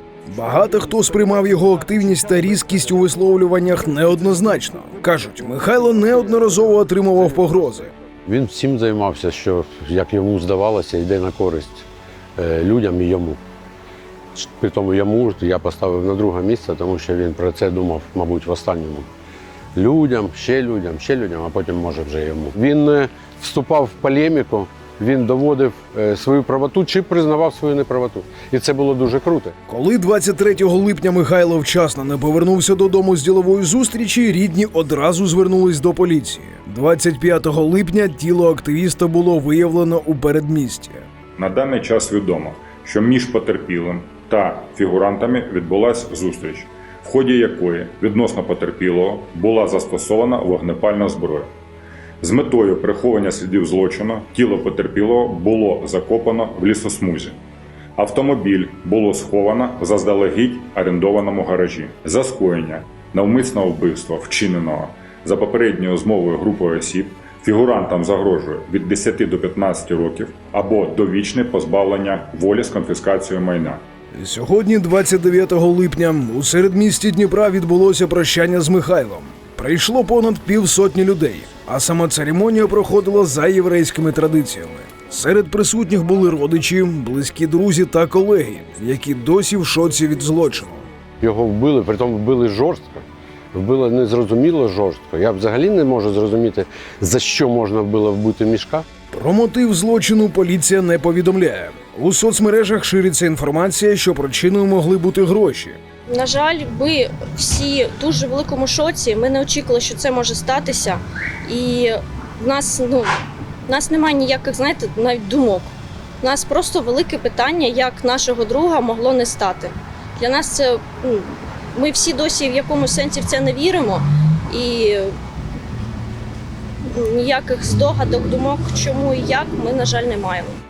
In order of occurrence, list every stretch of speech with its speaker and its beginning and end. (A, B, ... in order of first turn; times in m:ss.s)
0:00.3-0:07.9 A
0:08.3-0:13.4 B
0:14.4-0:19.1 B
0:19.8-0:29.5 B
0:29.7-0:41.0 A
0:41.4-0:51.5 C
0:52.2-0:57.4 C
0:58.0-1:13.8 C
1:14.2-1:30.8 A
1:31.2-1:38.9 B
1:39.1-1:45.8 A
1:46.1-1:53.1 D
1:53.7-2:05.1 D
2:06.9-2:10.6 D